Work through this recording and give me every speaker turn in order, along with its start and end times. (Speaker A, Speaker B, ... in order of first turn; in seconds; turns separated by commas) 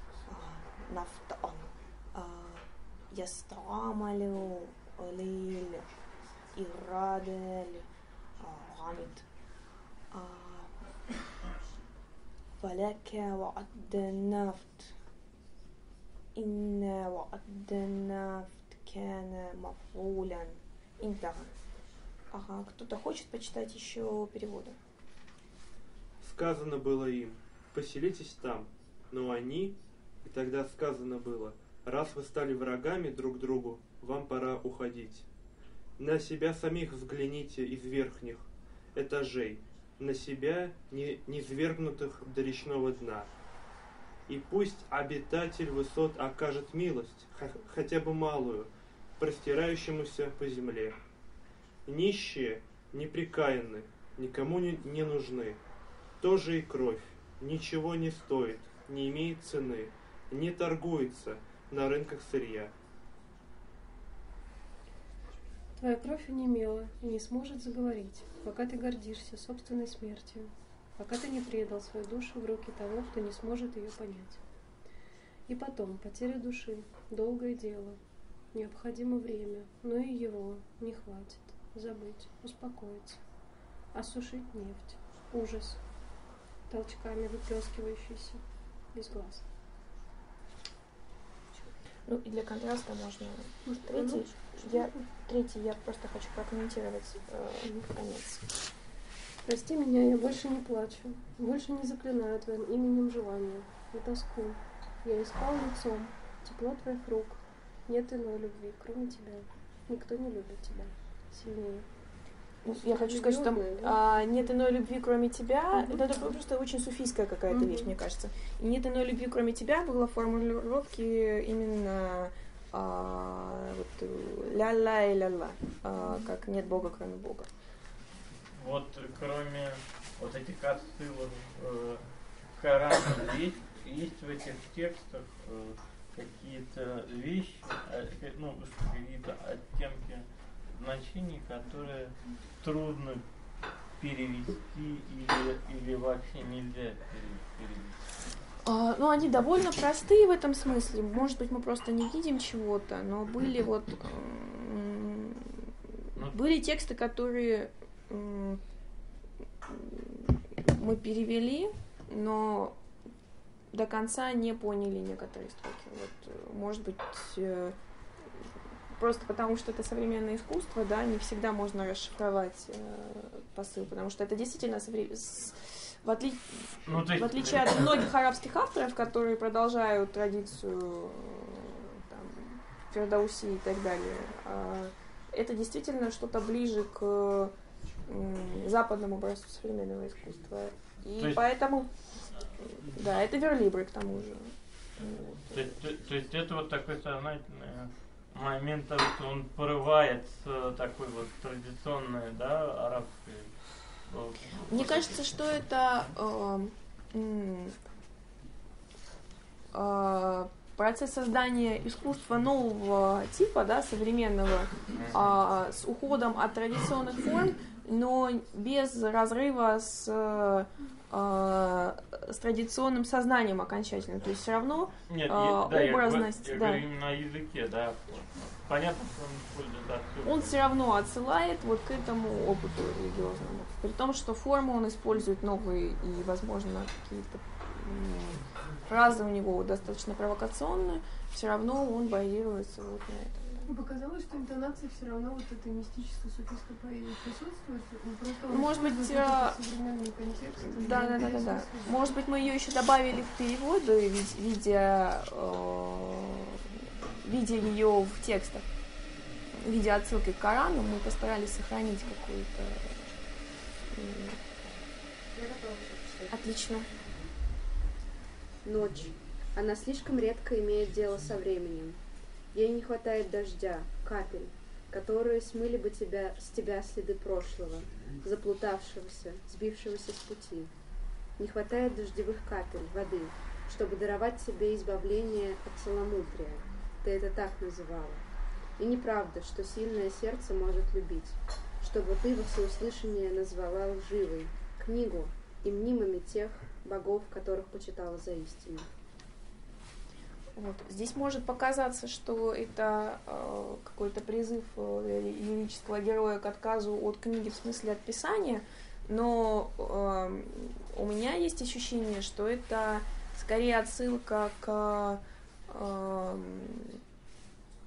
Speaker A: 0.3-5.8, Speaker A: 6.5-7.9, Speaker A: 8.4-9.3, Speaker A: 10.1-10.8, Speaker A: 12.6-14.9, Speaker A: 16.3-21.5, Speaker A: 22.3-24.8, Speaker B: 26.2-35.3, Speaker B: 36.0-43.3, Speaker B: 44.3-51.0, Speaker B: 51.9-55.6, Speaker B: 56.2-62.7, Speaker C: 65.8-74.4, Speaker C: 75.5-78.0, Speaker C: 78.5-83.2, Speaker C: 83.9-85.9, Speaker C: 86.7-89.5, Speaker A: 92.1-98.4, Speaker C: 93.6-95.1, Speaker C: 97.6-97.9, Speaker C: 99.4-111.9, Speaker A: 112.6-127.5, Speaker C: 112.7-114.4, Speaker C: 115.7-116.3, Speaker C: 117.5-118.0, Speaker D: 128.5-143.2, Speaker D: 144.0-148.0, Speaker A: 148.6-155.7, Speaker A: 156.3-158.6, Speaker A: 159.7-162.8, Speaker A: 163.7-167.7, Speaker A: 169.0-187.5, Speaker D: 176.8-178.1, Speaker A: 188.1-191.9, Speaker A: 192.6-195.8, Speaker D: 195.4-205.2, Speaker A: 204.6-207.8, Speaker A: 209.7-226.8, Speaker D: 214.9-215.2, Speaker D: 225.1-230.6, Speaker A: 230.2-243.7, Speaker C: 243.7-252.1, Speaker A: 248.5-249.6, Speaker A: 250.7-256.7, Speaker A: 257.2-258.7, Speaker A: 259.6-263.1, Speaker A: 263.9-264.5, Speaker E: 265.4-266.3, Speaker A: 266.3-266.9, Speaker E: 268.6-272.0, Speaker E: 272.5-280.7, Speaker E: 281.4-288.2, Speaker E: 288.8-298.9, Speaker A: 300.6-317.0